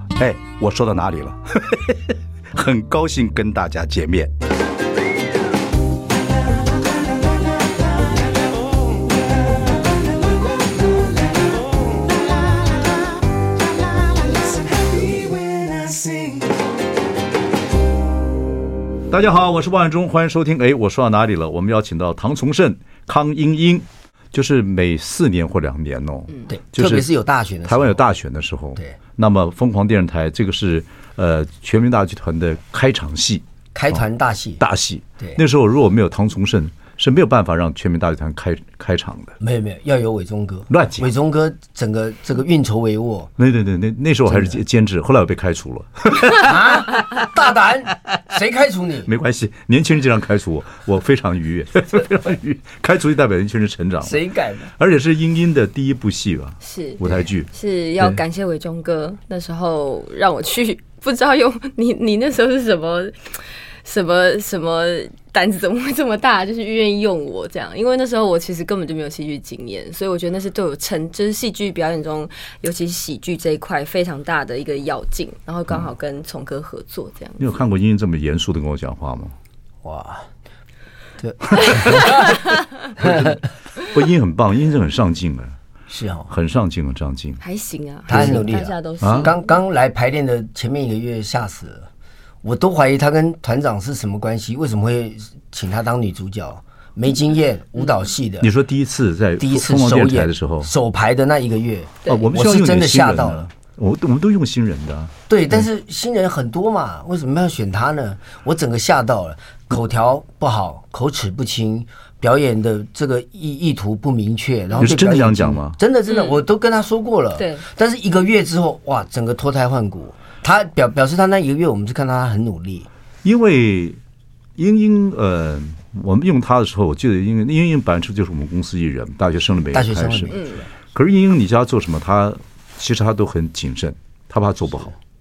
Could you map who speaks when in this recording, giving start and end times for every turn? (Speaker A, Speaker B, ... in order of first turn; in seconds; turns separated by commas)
Speaker A: 0.2-4.3, Speaker A: 19.1-27.1, Speaker B: 26.5-28.0, Speaker A: 27.6-34.0, Speaker B: 33.7-34.6, Speaker A: 34.6-39.3, Speaker B: 39.4-43.3, Speaker A: 40.7-41.1, Speaker A: 43.4-46.8, Speaker B: 44.3-44.6, Speaker B: 46.3-49.1, Speaker A: 49.0-54.2, Speaker B: 54.0-54.7, Speaker A: 54.8-57.5, Speaker C: 56.6-57.0, Speaker C: 57.5-63.3, Speaker C: 63.8-77.6, Speaker A: 77.4-79.3, Speaker B: 79.8-80.3, Speaker B: 81.2-82.4, Speaker A: 81.5-82.3, Speaker C: 82.0-82.3, Speaker A: 82.9-85.5, Speaker B: 83.0-83.4, Speaker B: 85.9-86.3, Speaker A: 86.3-87.4, Speaker C: 87.4-89.4, Speaker B: 88.1-91.9, Speaker A: 88.1-88.4, Speaker A: 89.0-89.3, Speaker B: 92.4-98.5, Speaker A: 98.4-100.7, Speaker B: 99.4-103.5, Speaker A: 102.0-105.1, Speaker B: 105.3-122.9, Speaker A: 114.8-115.8, Speaker C: 116.1-116.3, Speaker C: 117.3-117.6, Speaker A: 123.2-124.0, Speaker A: 124.6-130.3, Speaker B: 129.7-130.7, Speaker C: 130.3-130.6, Speaker A: 130.9-134.9